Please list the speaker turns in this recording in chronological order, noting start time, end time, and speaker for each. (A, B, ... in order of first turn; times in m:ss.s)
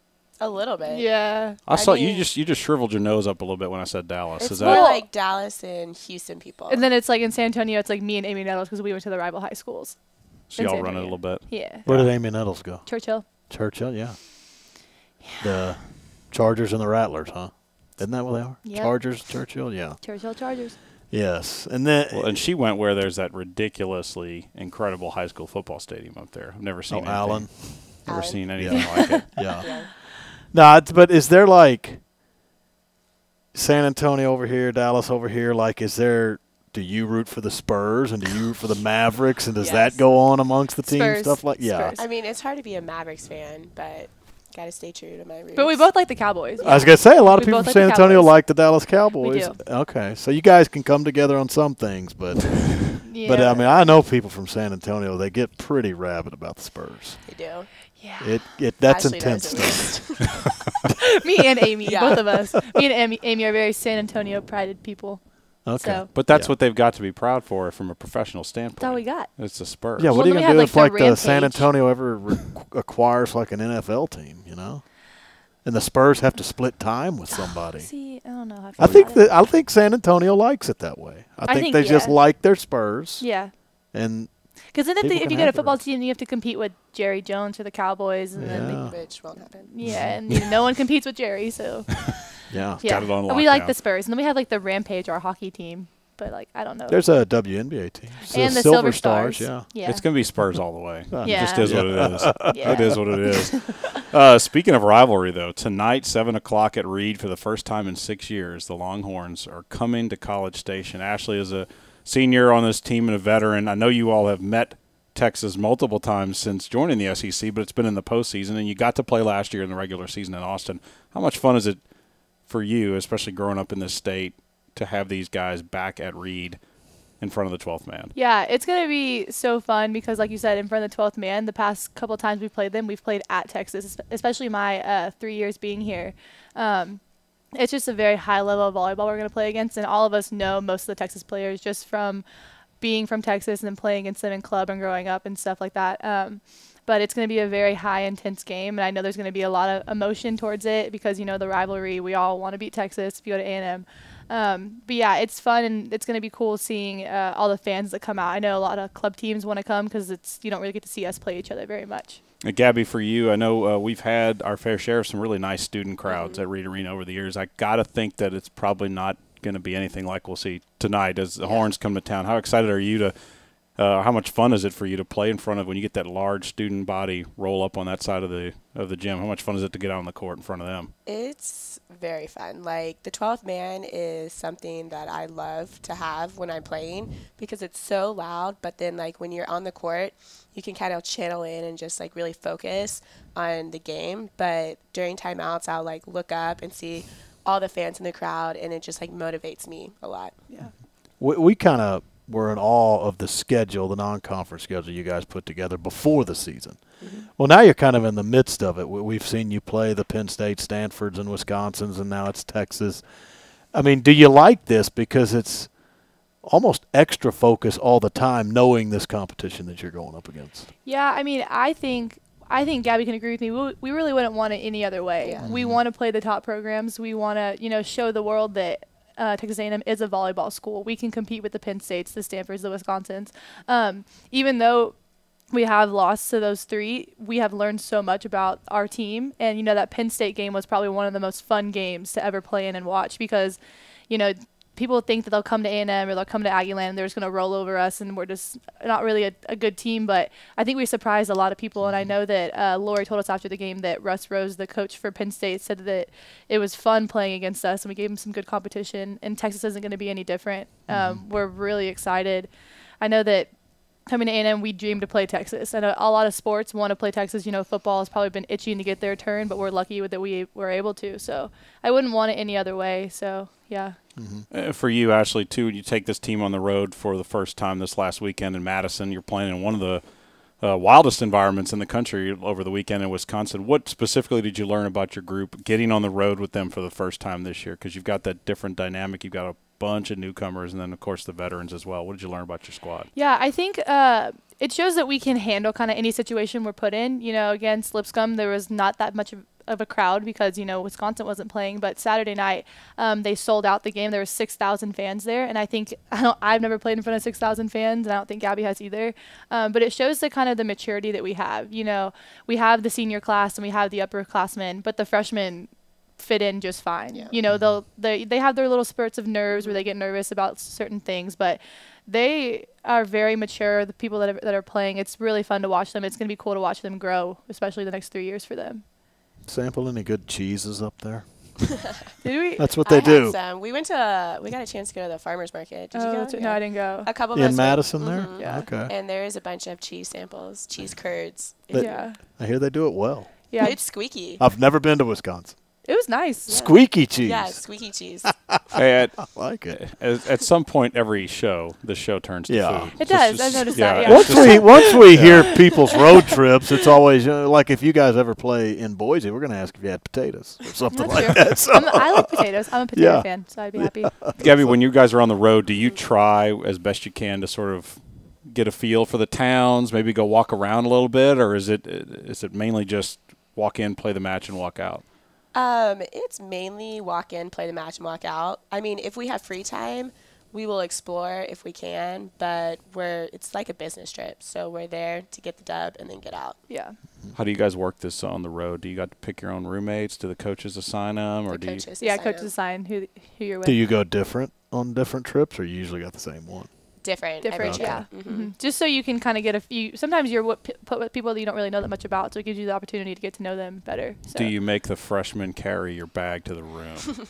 0:00.4-0:02.3 A
0:00.9-0:01.6 B
0:01.6-0:04.9 C
0:04.4-0:06.8 A
0:04.6-0:05.1 B
0:06.7-0:13.2 B
0:10.5-0:12.1 C
0:11.8-0:14.8 D
0:15.4-0:20.6 D
0:18.6-0:19.2 B
0:20.0-0:20.8 B
0:21.1-0:22.5 D
0:22.1-0:29.5 C
0:26.9-0:28.0 D
0:28.0-0:29.9 A
0:28.6-0:32.0 D
0:29.4-0:29.8 B
0:33.5-0:42.0 D
0:39.6-0:40.0 A
0:40.8-0:42.1 B
0:42.0-0:47.2 A
0:45.5-0:49.6 B
0:46.6-0:57.3 D
0:52.9-0:53.8 B
0:57.2-0:57.8 A
0:57.9-0:58.5 B
0:58.2-1:00.3 D
0:58.8-1:00.3 A
1:00.9-1:06.1 B
1:01.8-1:02.6 A
1:05.6-1:06.5 D
1:06.1-1:10.2 C
1:08.8-1:12.2 B
1:10.0-1:25.8 D
1:17.3-1:19.3 B
1:21.4-1:22.2 B
1:23.2-1:23.5 B
1:24.7-1:37.1 B
1:28.3-1:30.6 D
1:28.5-1:30.1 A
1:32.5-1:32.8 D
1:32.8-1:33.7 C
1:36.9-1:39.7 D
1:38.2-1:40.1 B
1:39.8-2:01.8 C
1:41.1-1:43.1 D
1:41.2-1:41.8 B
1:42.4-1:43.6 B
2:02.4-2:08.1 C
2:08.1-2:22.2 B
2:22.8-2:42.2 B
2:42.4-3:00.9 C
2:46.1-2:46.4 A
2:51.4-2:51.7 A
3:01.0-3:20.4 A
3:20.8-3:40.7 D
3:27.0-3:27.3 A
3:40.8-4:34.0 B
3:45.2-3:45.5 A
3:45.4-3:45.8 D
4:11.8-4:12.1 D
4:20.9-4:21.2 D
4:34.2-4:34.4 D
4:34.5-4:53.1 C
4:53.1-5:28.8 B
5:17.1-5:17.4 A
5:17.5-5:17.8 D
5:19.5-5:19.8 A
5:29.4-5:31.9 D
5:32.2-5:32.7 B
5:32.6-5:33.4 D
5:32.8-5:42.1 A
5:35.9-5:37.2 B
5:37.3-5:38.9 D
5:38.4-5:38.7 B
5:41.7-5:45.8 D
5:41.7-5:42.2 B
5:43.5-5:43.9 B
5:43.6-5:44.4 A
5:45.8-5:46.6 B
5:46.4-5:48.8 D
5:46.5-5:48.3 A
5:48.7-5:55.6 C
5:49.3-5:49.9 D
5:52.5-5:52.9 D
5:53.0-5:55.1 B
5:54.0-6:04.8 D
6:00.9-6:04.2 B
6:04.4-6:15.0 C
6:15.5-6:26.6 A
6:26.7-6:27.0 B
6:27.3-6:31.8 C
6:31.5-6:32.5 A
6:32.0-6:33.8 B
6:33.6-6:38.1 D
6:37.0-6:38.5 A
6:37.4-6:44.5 B
6:44.3-6:47.2 C